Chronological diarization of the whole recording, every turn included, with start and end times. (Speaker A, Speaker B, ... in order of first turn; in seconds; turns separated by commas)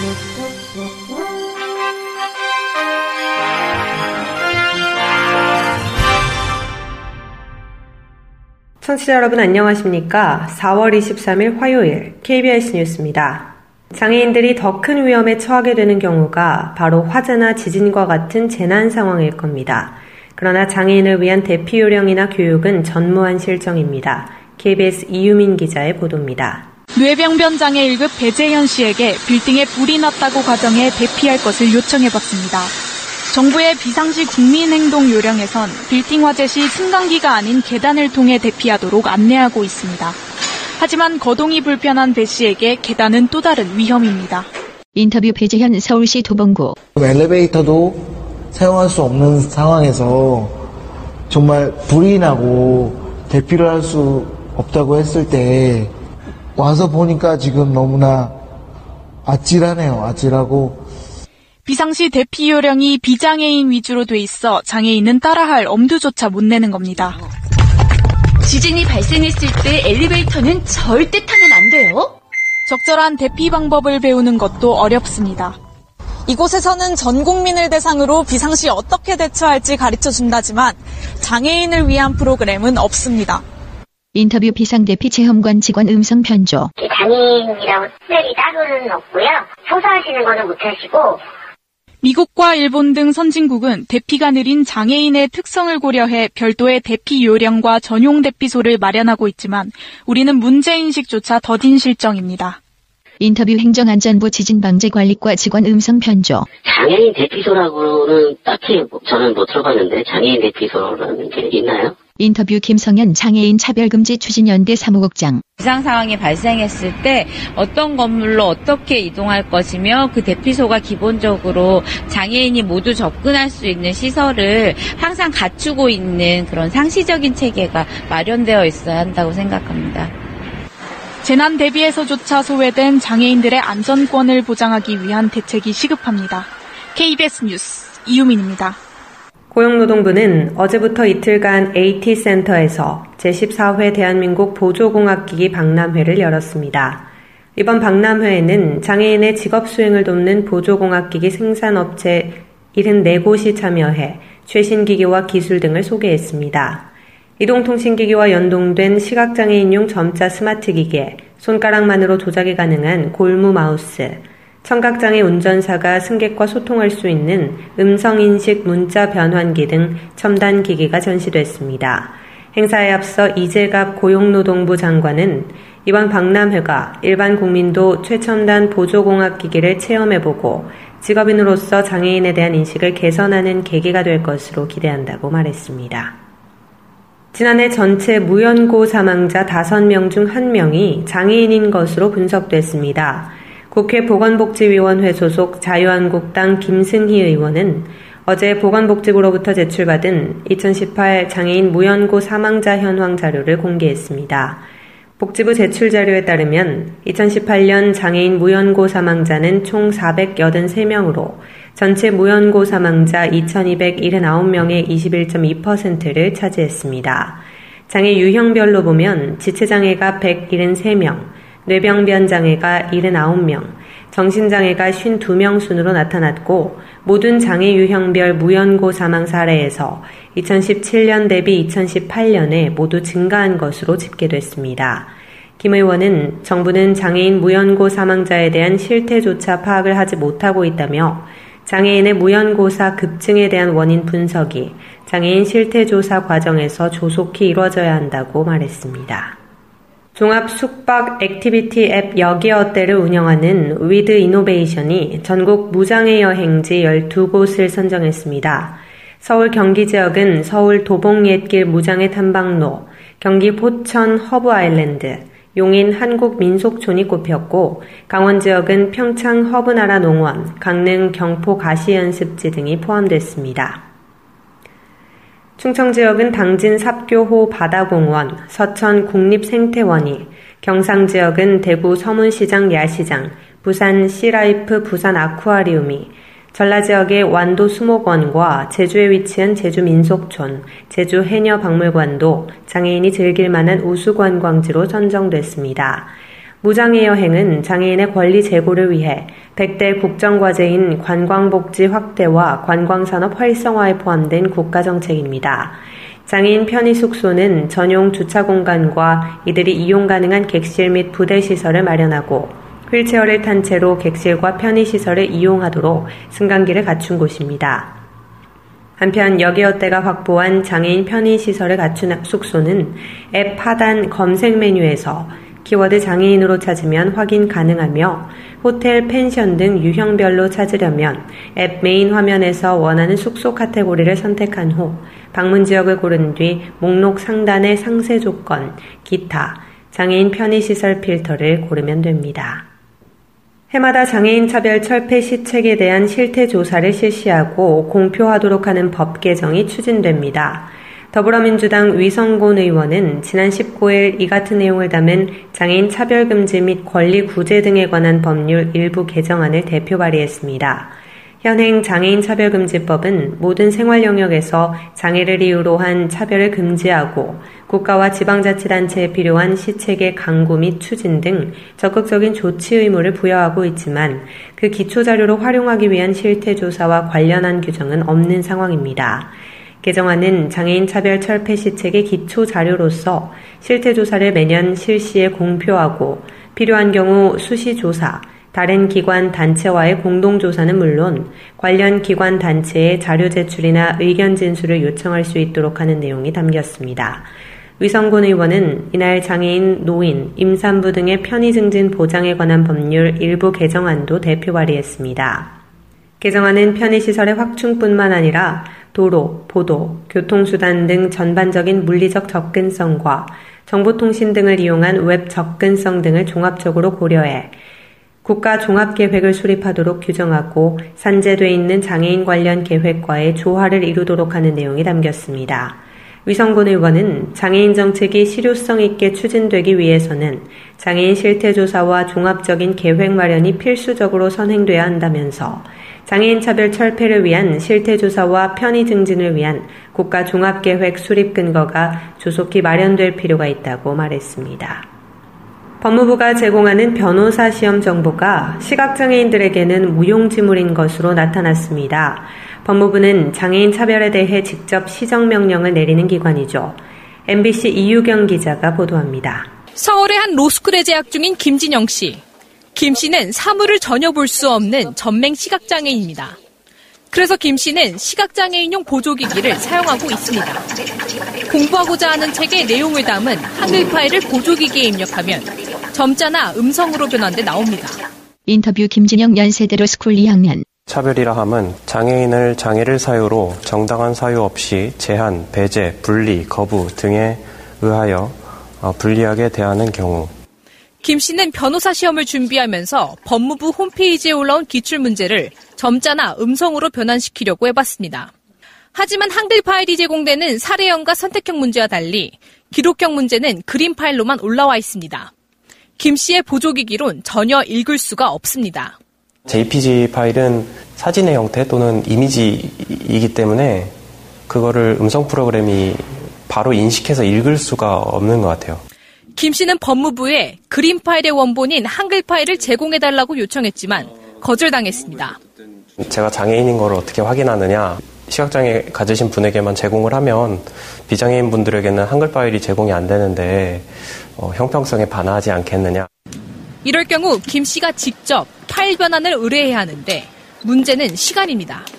Speaker A: 8.8-26.7, Speaker B: 26.9-32.7, Speaker B: 33.3-40.2, Speaker B: 40.8-44.5, Speaker C: 45.0-46.7, Speaker D: 47.0-50.6, Speaker D: 51.3-55.9, Speaker D: 56.5-58.3, Speaker D: 59.2-60.8, Speaker B: 61.6-67.2, Speaker E: 69.0-72.0, Speaker B: 72.7-75.5, Speaker B: 76.3-83.4, Speaker C: 84.1-86.7, Speaker F: 86.8-91.2, Speaker B: 92.0-102.6, Speaker C: 103.2-106.5, Speaker G: 106.6-111.9, Speaker C: 112.2-115.4, Speaker H: 115.6-130.1, Speaker B: 131.2-138.8, Speaker A: 139.5-186.2, Speaker A: 187.3-204.7, Speaker A: 205.2-249.3, Speaker A: 250.1-273.9, Speaker A: 275.6-318.0, Speaker A: 319.0-342.7, Speaker A: 343.7-405.6, Speaker A: 406.2-417.6, Speaker A: 418.2-444.9, Speaker A: 445.8-459.5, Speaker I: 459.8-462.2, Speaker I: 462.7-466.4, Speaker I: 467.1-470.6, Speaker I: 471.5-478.0, Speaker C: 478.5-480.6, Speaker J: 480.9-490.3, Speaker I: 491.0-498.3, Speaker I: 498.9-505.3, Speaker I: 506.0-508.9, Speaker J: 509.4-513.9, Speaker J: 514.5-518.8, Speaker I: 519.4-525.4, Speaker J: 526.0-536.1, Speaker I: 536.8-541.9